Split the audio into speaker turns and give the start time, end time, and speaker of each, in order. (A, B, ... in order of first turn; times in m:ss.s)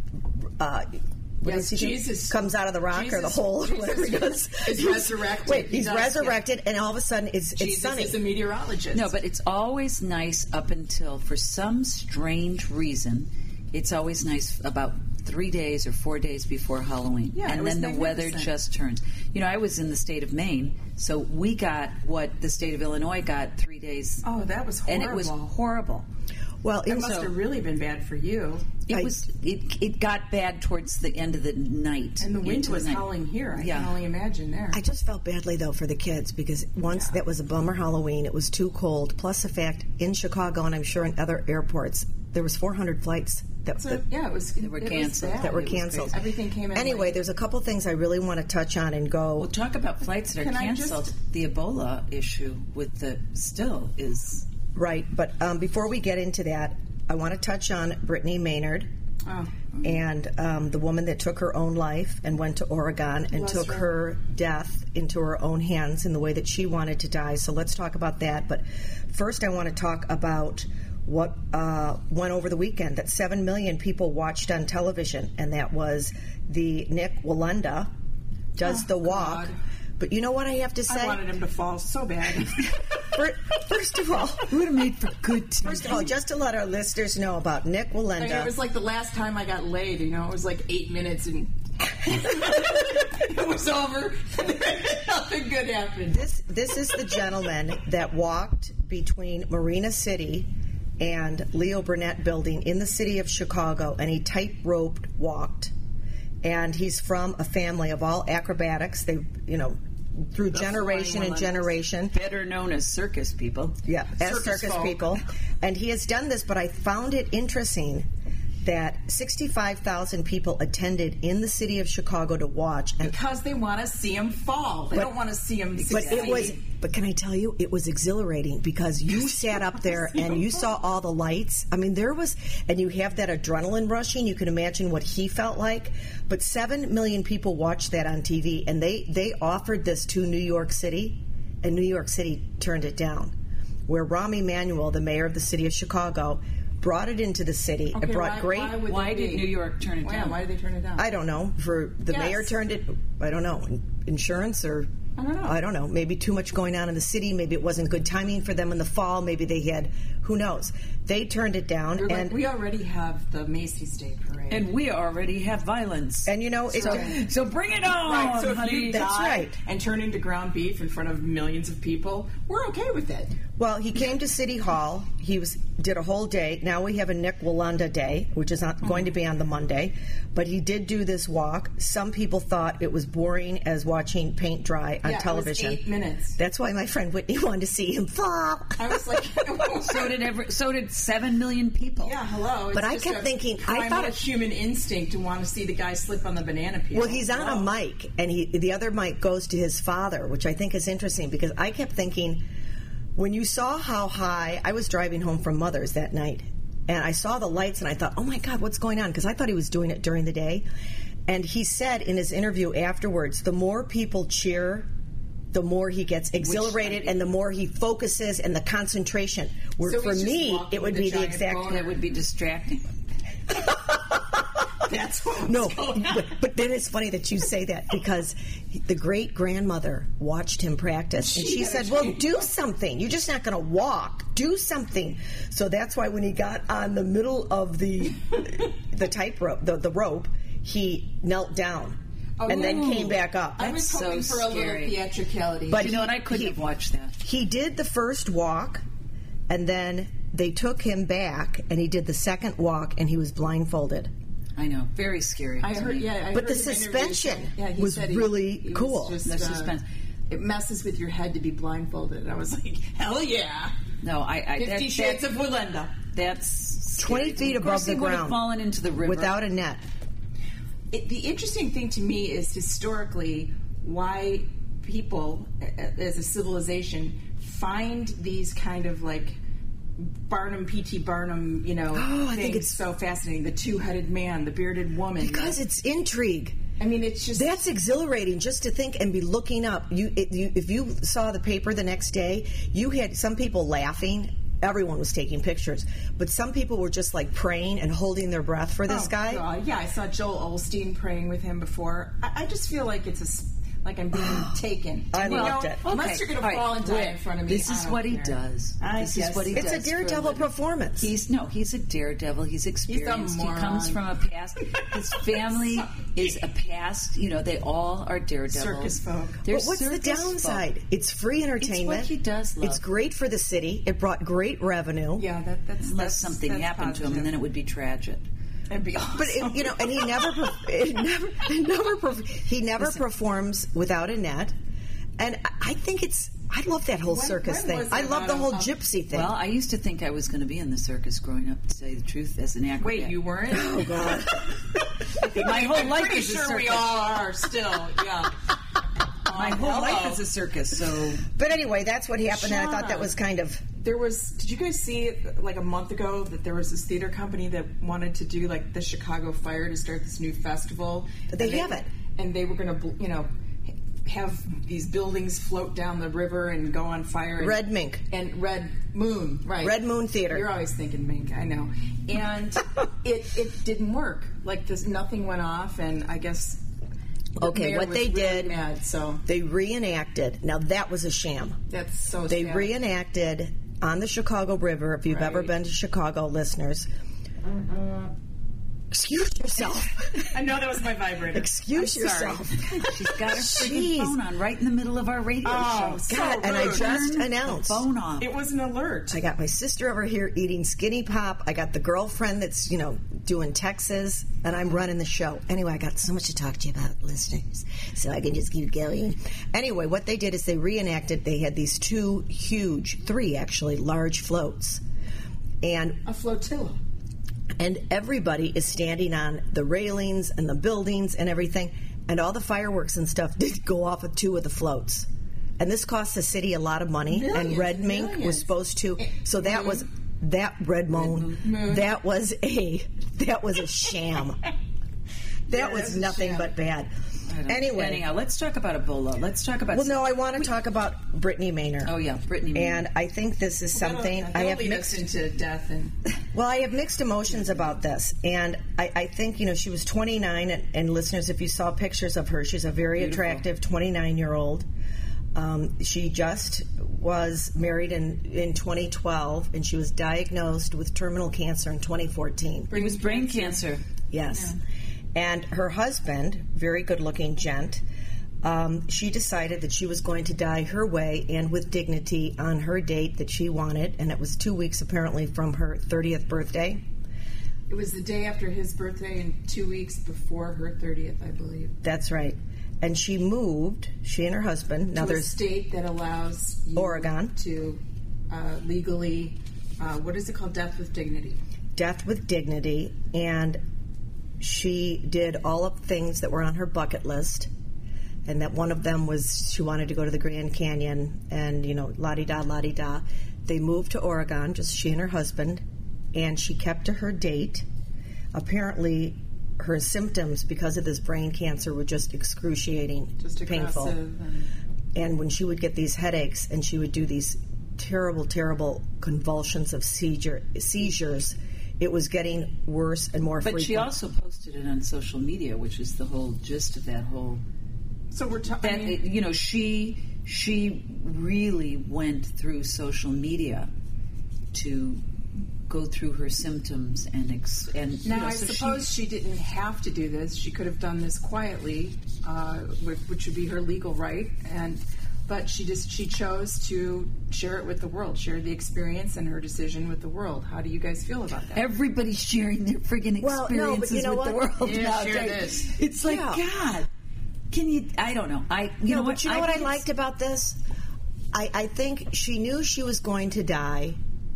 0:00.6-0:08.2 A
0:01.4-0:06.4 B
0:07.6-0:09.1 B
0:08.9-0:24.2 C
0:17.3-0:18.5 B
0:24.2-0:25.5 B
0:24.9-0:26.0 C
0:26.6-0:27.2 A
0:26.9-0:28.7 B
0:27.0-0:27.3 C
0:28.9-0:34.0 C
0:32.2-0:34.8 B
0:34.7-0:44.0 A
0:36.9-0:37.2 B
0:43.8-0:47.2 B
0:44.6-0:46.2 C
0:45.4-0:46.2 A
0:46.7-0:49.5 A
0:49.4-0:54.4 C
0:50.3-0:51.1 B
0:54.7-0:58.9 A
0:59.2-0:59.5 B
0:59.8-1:17.9 A
1:03.3-1:03.9 B
1:18.5-1:21.2 A
1:18.6-1:19.6 B
1:20.9-1:22.8 B
1:23.1-1:24.5 A
1:24.5-1:26.1 C
1:25.6-1:28.5 A
1:28.2-1:36.3 B
1:36.1-1:40.5 A
1:41.0-1:45.7 A
1:46.4-1:52.1 A
1:50.5-1:51.7 B
1:52.1-1:53.8 C
1:53.8-1:58.1 A
1:54.2-1:55.2 B
1:58.6-2:03.2 A
2:03.0-2:06.6 B
2:05.7-2:06.5 C
2:05.9-2:23.3 A
2:10.1-2:10.6 B
2:23.9-2:28.8 A
2:27.9-2:29.5 B
2:28.8-2:30.4 C
2:30.0-2:31.0 B
2:31.0-2:34.9 A
2:32.1-2:32.5 B
2:35.2-2:35.6 B
2:35.4-2:42.4 A
2:42.0-2:44.6 B
2:44.5-2:49.1 C
2:46.2-2:47.2 A
2:46.7-2:47.2 B
2:48.0-2:53.4 B
2:48.9-2:49.5 A
2:53.6-3:05.8 A
3:05.0-3:06.4 B
3:06.4-3:09.0 A
3:08.8-3:10.2 B
3:09.8-3:12.2 C
3:12.0-3:17.7 B
3:12.7-3:14.2 A
3:16.9-3:22.4 A
3:23.2-3:30.6 A
3:31.3-3:34.9 A
3:35.5-3:41.7 A
3:36.4-3:37.2 C
3:39.8-3:42.0 B
3:41.7-3:42.9 C
3:43.7-3:44.2 A
3:44.8-3:46.3 B
3:45.4-4:03.8 A
3:51.2-3:52.3 B
4:02.4-4:05.9 B
4:02.5-4:03.1 C
4:03.8-4:05.0 C
4:05.7-4:06.6 A
4:05.7-4:07.2 C
4:07.2-4:08.8 A
4:09.5-4:14.1 A
4:14.6-4:16.1 C
4:15.6-4:19.7 B
4:16.3-4:19.2 A
4:19.2-4:19.8 C
4:20.3-4:23.7 B
4:24.0-4:25.2 C
4:24.6-4:25.9 B
4:26.1-4:29.4 C
4:27.0-4:28.4 A
4:29.0-4:29.8 A
4:30.9-4:39.4 B
4:40.0-4:45.6 B
4:41.9-4:42.8 A
4:45.2-4:46.6 A
4:46.8-4:47.6 B
4:47.3-4:59.4 A
4:58.9-5:09.8 B
5:04.1-5:04.6 A
5:05.1-5:05.8 A
5:05.2-5:20.6 C
5:09.5-5:11.1 A
5:12.9-5:14.0 B
5:18.5-5:19.4 B
5:19.5-5:22.1 A
5:21.6-5:22.8 C
5:22.6-5:25.2 A
5:25.2-5:27.3 B
5:25.8-5:28.2 C
5:28.7-5:30.3 B
5:29.2-5:34.5 A
5:35.2-5:39.4 A
5:37.0-5:38.7 B
5:39.1-5:43.2 C
5:42.8-5:44.1 B
5:43.5-5:44.6 A
5:45.1-5:48.4 B
5:45.2-5:47.0 C
5:49.2-5:50.2 B
5:49.3-5:51.2 C
5:51.3-5:53.6 A
5:52.2-5:53.1 B
5:53.8-6:16.6 B
6:01.3-6:01.9 A
6:07.4-6:08.0 A
6:09.6-6:10.5 A
6:17.4-6:18.5 A
6:17.4-6:19.2 B
6:19.2-6:21.6 A
6:21.7-6:22.7 B
6:22.3-6:26.9 A
6:25.1-6:25.5 B
6:28.9-6:30.3 A
6:30.3-6:32.8 B
6:31.3-6:34.2 A
6:32.8-6:38.3 C
6:35.4-6:37.1 B
6:36.1-6:37.8 A
6:38.2-6:39.2 B
6:39.1-6:54.8 A
6:55.6-6:56.0 A
6:56.0-6:56.8 B
6:57.6-7:14.4 A
7:07.0-7:08.5 B
7:09.4-7:09.8 B
7:10.9-7:11.4 C
7:11.4-7:11.9 B
7:15.5-7:16.5 B
7:15.5-7:16.9 A
7:17.3-7:20.5 C
7:17.4-7:18.0 A
7:19.7-7:21.9 A
7:21.8-7:22.8 C
7:22.5-7:25.0 A
7:23.7-7:26.0 B
7:26.3-7:34.7 A
7:33.0-7:33.4 C
7:35.3-7:42.7 A
7:42.7-7:43.6 B
7:42.7-7:43.8 C
7:44.1-7:44.5 A
7:45.1-7:47.8 A
7:48.4-7:56.8 A
7:57.7-8:01.7 B
8:01.8-8:05.3 A
8:04.9-8:11.4 B
8:06.8-8:07.3 A
8:11.8-8:13.6 A
8:14.4-8:17.5 A
8:18.2-8:25.6 A
8:26.1-8:27.6 A
8:28.3-8:34.0 A
8:33.2-8:34.5 B
8:34.9-8:43.9 A
8:43.4-8:47.4 C
8:48.1-8:49.0 B
8:48.6-8:53.7 C
8:54.5-8:55.0 C
8:55.7-8:58.8 C
8:58.0-9:11.6 B
9:11.5-9:16.9 C
9:13.2-9:14.5 A
9:14.6-9:15.7 B
9:16.0-9:16.4 A
9:17.5-9:19.8 C
9:18.8-9:20.6 A
9:21.3-9:24.0 A